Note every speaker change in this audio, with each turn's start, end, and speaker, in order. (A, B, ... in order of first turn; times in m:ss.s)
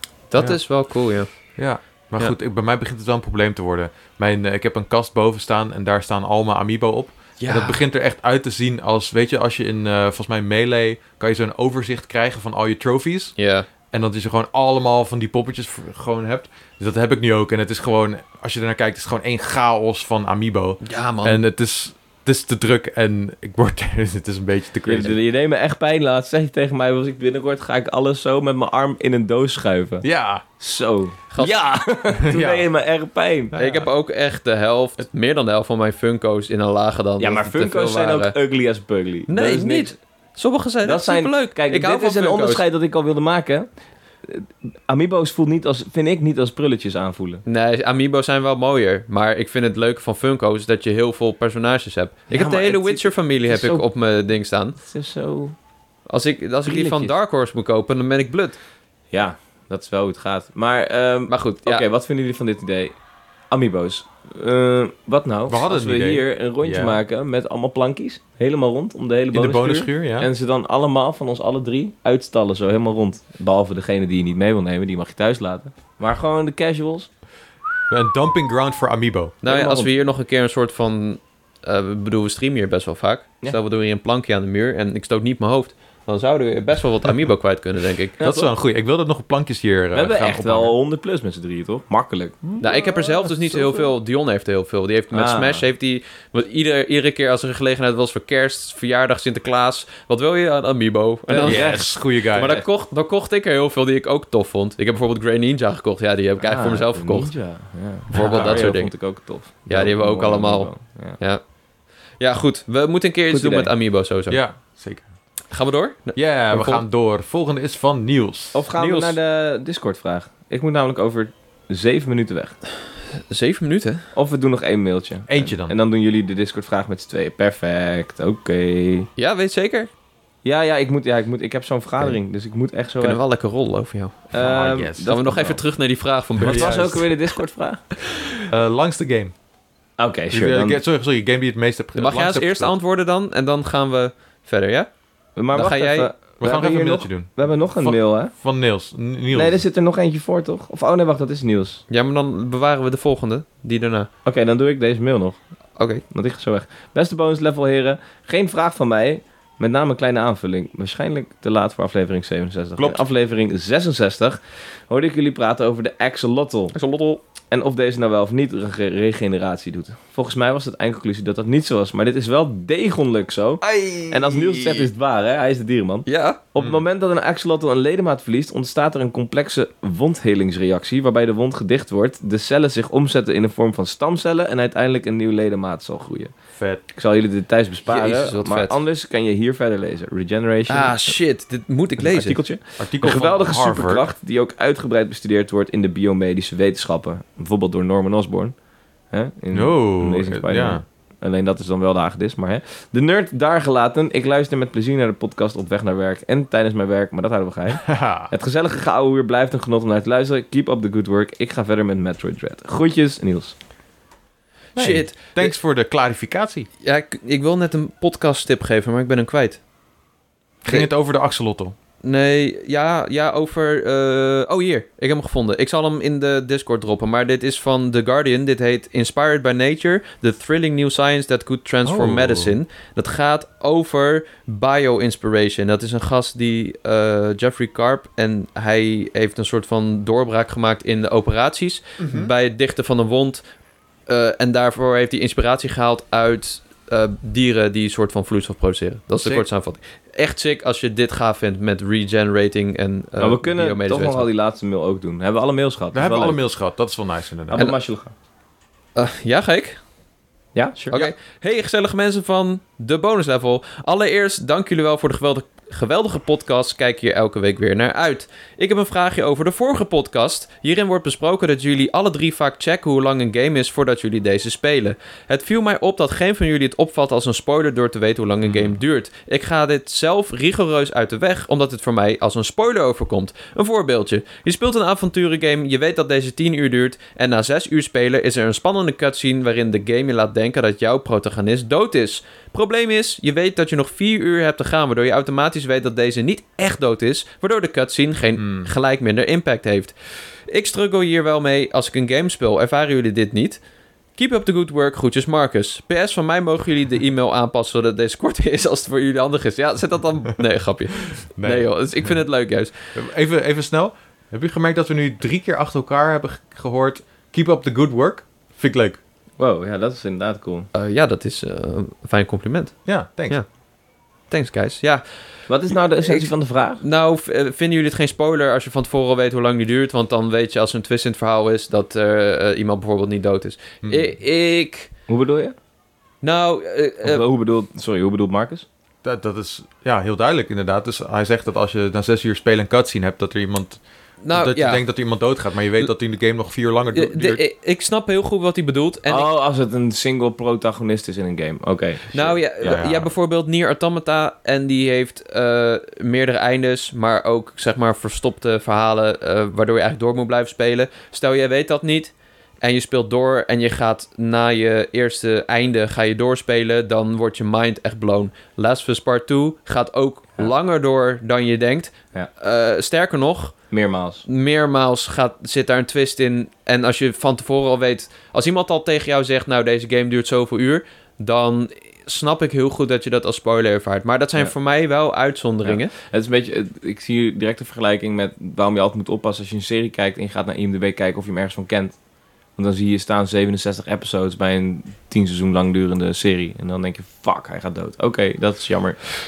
0:00.3-0:01.3 A
0:01.6-0:13.4 B
0:07.4-0:07.8 A
0:13.4-0:13.7 A
0:13.9-0:25.2 B
0:20.8-0:21.4 A
0:24.9-0:30.1 C
0:30.0-0:30.4 B
0:30.6-0:33.5 C
0:32.2-0:32.7 B
0:33.5-0:33.9 B
0:33.6-0:38.4 A
0:37.2-0:40.0 C
0:39.3-0:42.6 A
0:40.8-0:43.7 C
0:44.2-0:47.4 C
0:47.5-0:54.8 A
0:52.3-0:53.9 C
0:54.8-0:55.6 C
0:56.1-0:58.6 A
0:56.7-0:57.1 C
0:59.1-1:03.0 C
1:01.3-1:01.9 A
1:03.5-1:17.1 C
1:05.5-1:07.0 B
1:09.3-1:10.3 B
1:17.9-1:19.4 B
1:19.4-1:28.2 A
1:19.4-1:19.9 C
1:28.2-1:28.5 C
1:28.2-1:30.7 B
1:29.9-1:33.9 C
1:32.6-1:47.3 A
1:35.1-1:35.6 C
1:41.3-1:42.6 C
1:41.4-1:42.6 B
1:46.4-1:51.2 C
1:48.1-1:48.9 A
1:48.1-1:48.7 B
1:49.7-1:51.4 A
1:52.2-1:54.4 A
1:53.3-1:53.7 C
1:54.3-1:55.1 B
1:55.5-1:56.8 A
1:56.2-1:58.6 B
1:58.5-2:02.6 C
1:58.8-1:59.2 A
2:03.3-2:04.0 A
2:04.2-2:09.1 C
2:05.3-2:05.8 B
2:09.2-2:09.9 A
2:10.4-2:13.2 C
2:13.0-2:14.3 A
2:14.3-2:15.6 C
2:14.4-2:15.6 B
2:15.0-2:17.1 A
2:16.4-2:17.0 B
2:16.4-2:17.9 C
2:18.5-2:19.3 B
2:20.0-2:20.8 C
2:20.3-2:22.7 B
2:22.0-2:24.9 A
2:25.4-2:28.3 C
2:25.5-2:26.1 A
2:26.4-2:29.6 B
2:29.3-2:31.8 C
2:31.9-2:34.1 A
2:34.2-2:35.4 C
2:35.8-2:36.0 A
2:36.1-2:46.8 C
2:42.8-2:43.0 B
2:46.7-2:47.2 A
2:47.5-3:06.3 C
2:53.6-2:54.9 A
2:56.1-2:56.4 A
2:56.6-2:56.8 B
3:06.6-3:06.8 B
3:06.9-3:11.2 C
3:07.9-3:08.8 A
3:10.7-3:12.4 A
3:12.0-3:18.6 C
3:12.8-3:14.1 B
3:19.1-3:33.6 C
3:19.5-3:20.8 B
3:27.8-3:28.3 B
3:34.8-3:35.6 A
3:34.8-3:36.7 B
3:36.8-3:39.6 A
3:40.6-3:41.8 B
3:42.0-4:03.4 A
3:51.8-3:52.6 B
4:02.0-4:02.3 B
4:04.1-4:14.3 A
4:09.2-4:09.5 B
4:13.2-4:16.4 C
4:15.9-4:17.6 B
4:17.5-4:18.1 C
4:19.0-4:19.8 A
4:20.6-4:21.1 C
4:20.9-4:59.9 A
4:38.4-4:38.8 B
4:58.4-4:58.7 B
5:00.5-5:03.6 A
5:04.2-5:12.8 A
5:11.1-5:12.1 B
5:12.9-5:19.0 B
5:19.4-5:20.7 C
5:20.7-5:23.5 A
5:22.9-5:23.4 B
5:24.3-5:25.0 A
5:25.5-5:26.8 C
5:26.0-5:34.9 A
5:33.8-5:34.1 B
5:35.1-5:35.6 C
5:36.2-5:37.2 A
5:37.0-5:38.7 C
5:39.0-5:47.4 B
5:44.2-5:44.8 A
5:46.9-5:49.4 A
5:49.1-5:52.8 C
5:52.1-6:13.6 A
5:52.6-5:53.1 B
6:13.7-6:14.2 C
6:14.3-6:25.9 A
6:25.6-6:32.0 C
6:32.6-6:39.1 C